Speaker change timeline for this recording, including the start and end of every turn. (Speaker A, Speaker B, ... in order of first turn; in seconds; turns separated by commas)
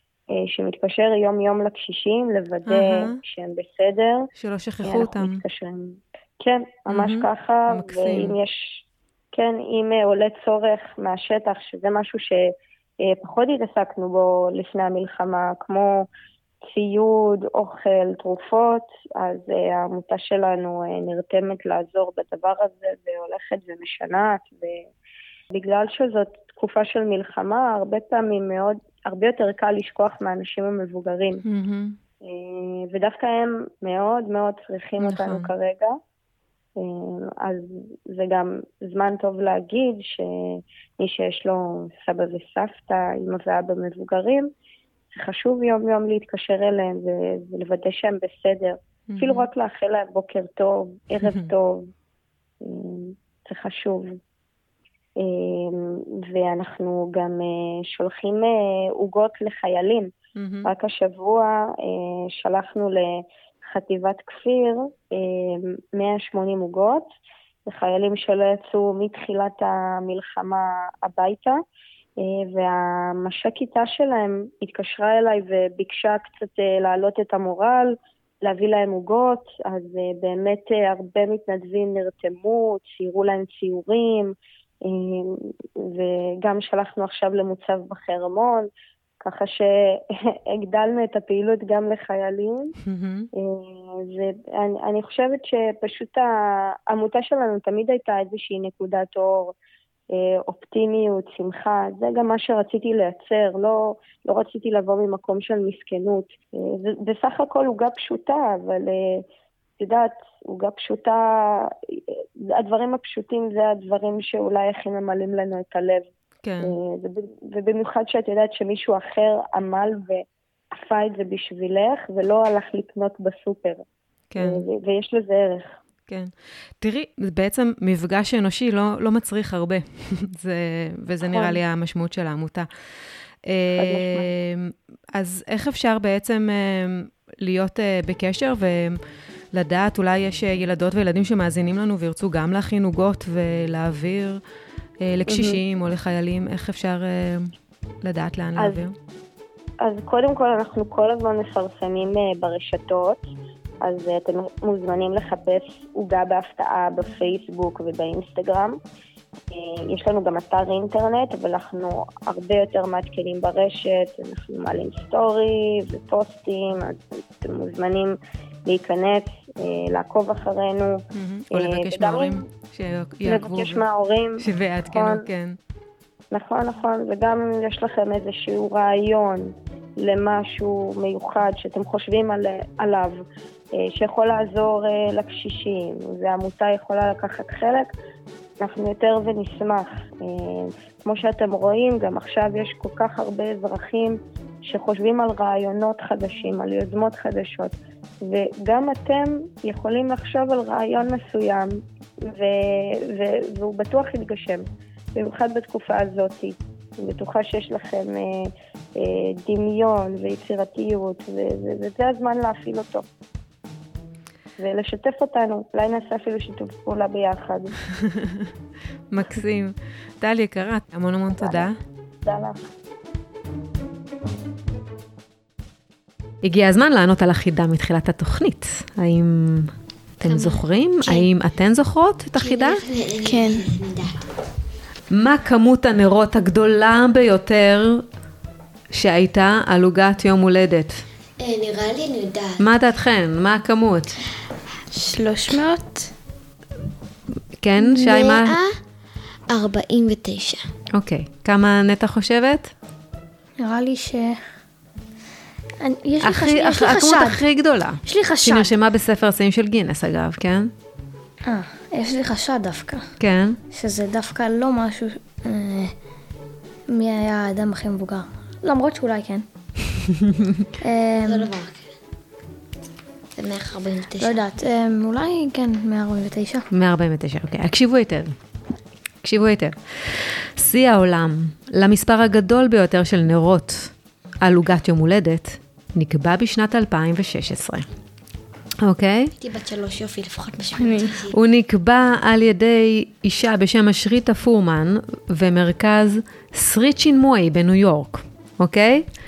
Speaker A: 0.4-4.3, Speaker B: 2.7-3.2, Speaker B: 4.4-5.4, Speaker A: 4.8-12.4, Speaker B: 6.9-8.4, Speaker A: 13.1-16.1, Speaker A: 16.7-24.9, Speaker A: 25.5-31.4, Speaker B: 31.5-32.0, Speaker A: 32.3-35.9, Speaker B: 35.0-35.5, Speaker A: 36.8-44.5, Speaker A: 45.1-51.9, Speaker B: 49.1-49.5, Speaker A: 52.6-54.2, Speaker A: 55.2-60.1, Speaker B: 60.4-60.7, Speaker A: 60.6-67.1, Speaker A: 67.7-71.6, Speaker A: 72.2-84.3, Speaker A: 84.8-88.7, Speaker A: 89.2-92.8, Speaker B: 92.9-93.3, Speaker A: 93.4-96.3, Speaker A: 96.9-99.5, Speaker A: 100.1-109.2, Speaker A: 109.8-116.1, Speaker B: 116.4-116.7, Speaker A: 116.6-120.2, Speaker A: 120.7-123.8, Speaker B: 124.3-124.6, Speaker A: 124.4-125.8, Speaker B: 126.1-132.7, Speaker A: 131.3-131.6, Speaker B: 133.5-139.0, Speaker A: 133.8-134.3, Speaker B: 139.5-144.4, Speaker B: 145.1-148.9, Speaker A: 145.3-145.6, Speaker A: 148.6-148.9, Speaker A: 149.8-153.3, Speaker A: 153.8-158.8, Speaker A: 159.5-171.0, Speaker B: 171.2-173.8, Speaker A: 171.5-172.4, Speaker A: 173.2-175.3, Speaker B: 174.4-175.6, Speaker A: 176.3-183.2, Speaker A: 183.8-187.9, Speaker A: 188.6-213.1, Speaker A: 214.6-217.7, Speaker B: 218.1-218.5, Speaker B: 219.1-221.8, Speaker A: 221.4-221.7, Speaker A: 222.2-222.7, Speaker B: 226.4-232.8, Speaker C: 230.2-231.3, Speaker C: 232.4-234.2, Speaker D: 233.2-233.7, Speaker B: 235.1-238.0, Speaker B: 238.9-241.0, Speaker C: 241.4-242.6, Speaker B: 242.6-244.2, Speaker D: 244.9-246.1, Speaker B: 247.6-248.6, Speaker C: 247.8-248.8, Speaker C: 249.5-250.6, Speaker B: 250.9-252.7, Speaker E: 253.6-254.4, Speaker E: 255.8-257.4, Speaker B: 256.2-260.7, Speaker E: 258.1-258.7, Speaker E: 261.5-263.1, Speaker B: 263.2-263.6, Speaker E: 263.7-265.9, Speaker E: 266.9-269.4, Speaker E: 270.8-271.5, Speaker C: 271.3-271.9, Speaker C: 273.4-274.4, Speaker E: 274.2-276.7, Speaker B: 276.7-278.4, Speaker B: 279.2-283.9, Speaker B: 284.4-287.9, Speaker B: 288.8-289.3, Speaker C: 289.4-291.4, Speaker D: 290.8-291.2, Speaker B: 291.3-299.1